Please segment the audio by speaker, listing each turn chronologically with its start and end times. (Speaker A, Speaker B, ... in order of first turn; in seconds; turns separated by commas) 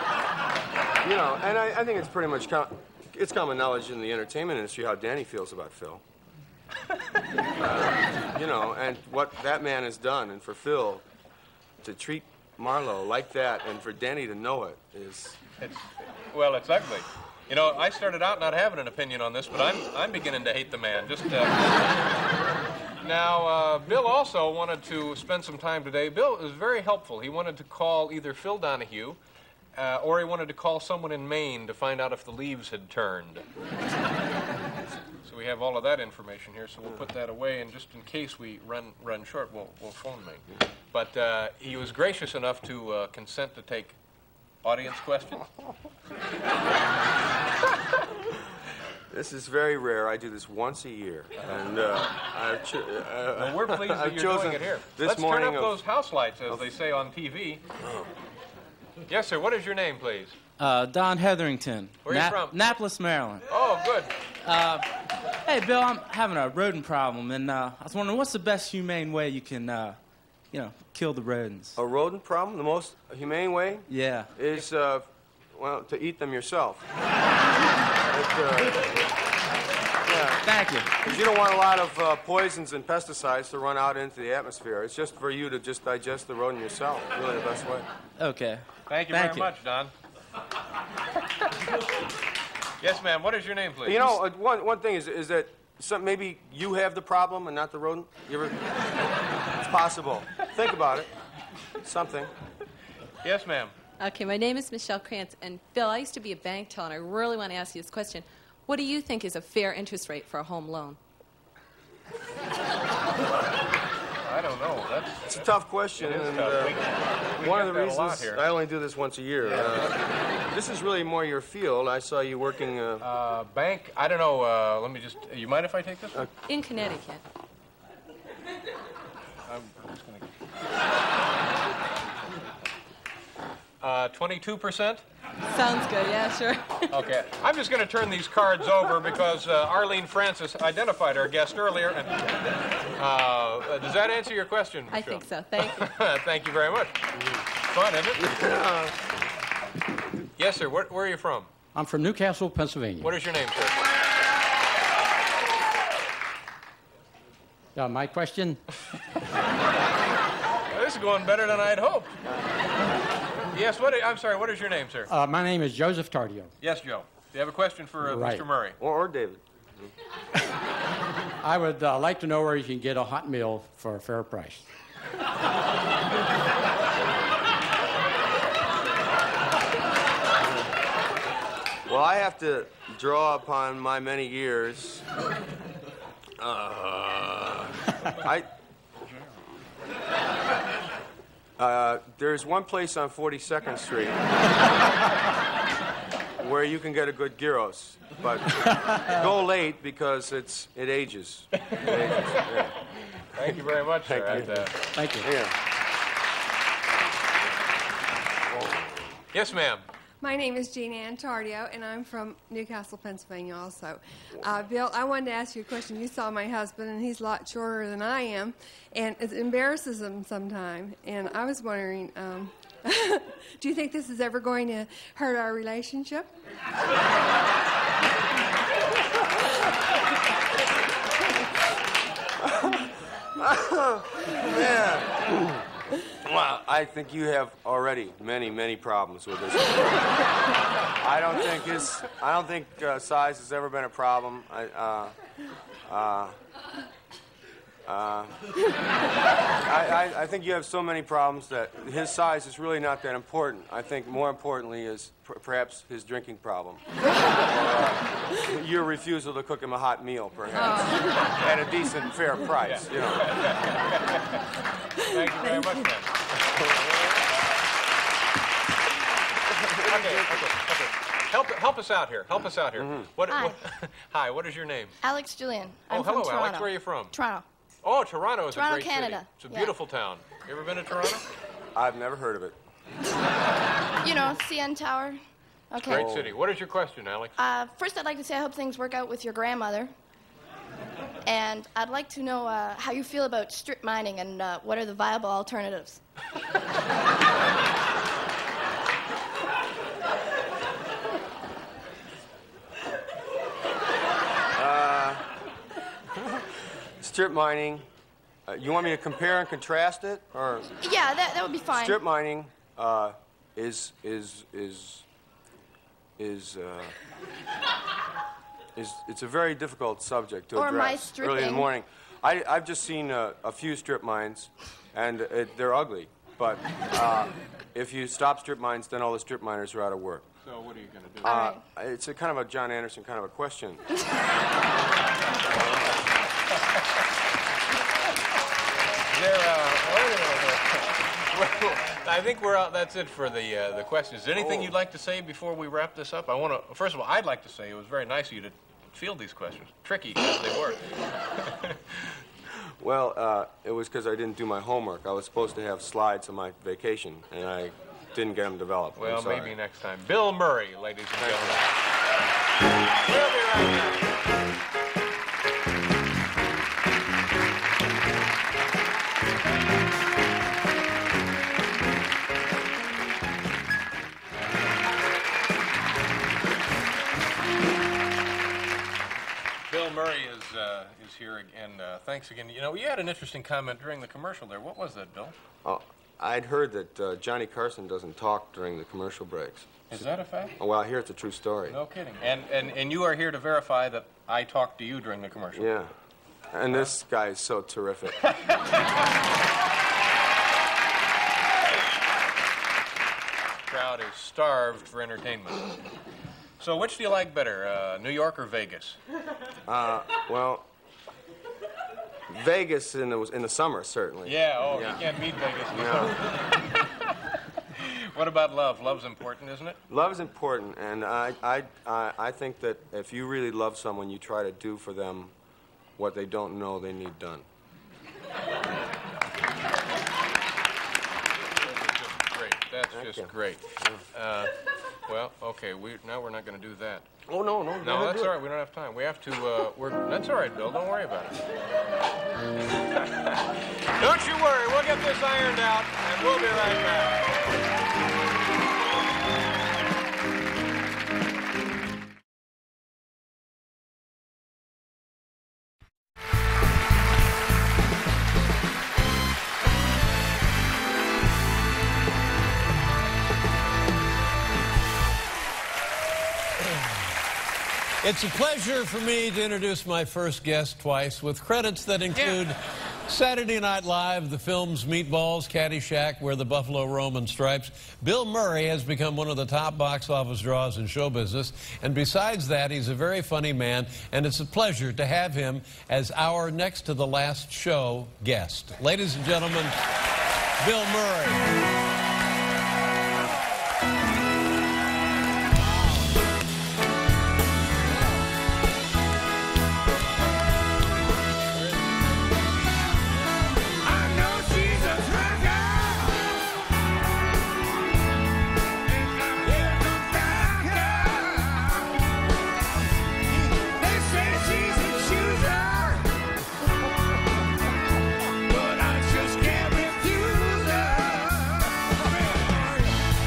Speaker A: 1.0-6.0, Speaker A: 7.6-11.0, Speaker A: 11.8-15.4, Speaker B: 15.6-22.1, Speaker B: 23.0-29.2, Speaker B: 29.7-33.4, Speaker B: 35.2-44.0, Speaker B: 44.6-45.5, Speaker A: 49.1-55.8, Speaker B: 53.3-57.6, Speaker B: 59.1-60.4, Speaker C: 60.6-63.4, Speaker B: 62.0-62.6, Speaker B: 63.5-64.1, Speaker C: 64.4-64.8, Speaker C: 65.5-70.0, Speaker C: 70.5-71.8, Speaker A: 71.8-76.8, Speaker C: 73.9-74.3, Speaker A: 78.1-78.8, Speaker A: 80.0-87.9, Speaker C: 80.4-80.9, Speaker C: 88.2-89.5, Speaker B: 88.9-89.9, Speaker B: 92.8-94.2, Speaker A: 93.8-98.6, Speaker A: 99.6-101.1, Speaker A: 101.8-102.3, Speaker B: 103.2-103.7, Speaker D: 104.0-111.0, Speaker B: 114.2-118.4, Speaker A: 115.3-116.8, Speaker A: 117.4-123.0, Speaker B: 123.0-126.3, Speaker D: 126.5-127.2, Speaker B: 129.4-130.3, Speaker B: 133.8-135.0, Speaker D: 135.6-136.7, Speaker B: 136.9-142.3, Speaker B: 142.9-147.0, Speaker D: 144.9-145.7, Speaker B: 147.6-148.4, Speaker A: 148.2-148.9, Speaker B: 150.4-151.5, Speaker E: 151.7-153.1, Speaker B: 153.0-153.8, Speaker E: 157.8-158.6, Speaker B: 160.7-162.1, Speaker B: 163.5-165.1, Speaker E: 165.1-166.5, Speaker B: 166.6-168.8, Speaker E: 168.0-168.4, Speaker A: 168.8-169.9, Speaker E: 171.4-174.6, Speaker A: 181.9-185.1, Speaker A: 186.4-188.5, Speaker A: 191.6-194.3, Speaker A: 196.4-202.8, Speaker B: 201.8-202.4, Speaker B: 203.3-204.8, Speaker A: 203.4-205.5, Speaker E: 204.9-205.3, Speaker A: 208.5-209.1, Speaker B: 209.3-209.8, Speaker F: 210.2-226.3, Speaker A: 232.4-235.6, Speaker A: 236.2-240.1, Speaker A: 241.0-245.1, Speaker A: 245.8-246.3, Speaker A: 247.8-248.5, Speaker A: 249.7-256.8, Speaker A: 257.4-263.4, Speaker B: 262.6-264.5, Speaker B: 265.0-266.2, Speaker A: 266.6-267.0, Speaker A: 269.6-270.5, Speaker B: 269.8-274.9, Speaker A: 272.7-273.1, Speaker G: 273.2-273.6, Speaker G: 275.0-277.4, Speaker B: 275.9-277.1, Speaker B: 277.8-281.2, Speaker G: 278.5-279.7, Speaker A: 281.7-282.6, Speaker G: 284.0-285.2, Speaker G: 285.7-286.1, Speaker B: 285.8-287.4, Speaker A: 285.8-286.3, Speaker G: 287.4-289.9, Speaker G: 291.2-296.0, Speaker A: 304.5-305.2, Speaker A: 307.0-307.9, Speaker A: 308.5-310.7, Speaker G: 310.8-312.0, Speaker A: 311.7-315.0, Speaker A: 316.2-316.9, Speaker A: 318.7-330.3, Speaker G: 320.5-321.7, Speaker B: 330.4-331.5, Speaker G: 331.2-331.6, Speaker A: 331.2-333.8, Speaker A: 335.5-336.0, Speaker B: 339.1-352.1, Speaker A: 344.4-344.7, Speaker A: 352.8-359.5, Speaker B: 358.9-361.6, Speaker A: 361.2-361.6, Speaker B: 363.0-364.1, Speaker B: 379.7-385.4, Speaker A: 385.6-389.9, Speaker B: 389.9-390.5, Speaker A: 390.6-391.8, Speaker B: 391.7-395.7, Speaker A: 395.5-395.9, Speaker A: 396.5-398.2, Speaker B: 403.7-405.8, Speaker B: 406.6-409.0, Speaker A: 409.7-410.7, Speaker A: 412.3-415.1, Speaker B: 414.2-416.5, Speaker A: 415.7-416.2, Speaker B: 417.7-419.8, Speaker A: 419.9-425.3, Speaker A: 426.0-427.4, Speaker B: 431.6-434.5, Speaker A: 432.9-433.3, Speaker B: 435.1-437.1, Speaker A: 437.3-438.3, Speaker B: 437.8-441.4, Speaker B: 442.7-447.6, Speaker H: 468.0-489.8, Speaker H: 490.6-491.5, Speaker E: 503.8-506.2, Speaker E: 508.9-511.8, Speaker E: 513.5-516.0, Speaker E: 518.5-523.0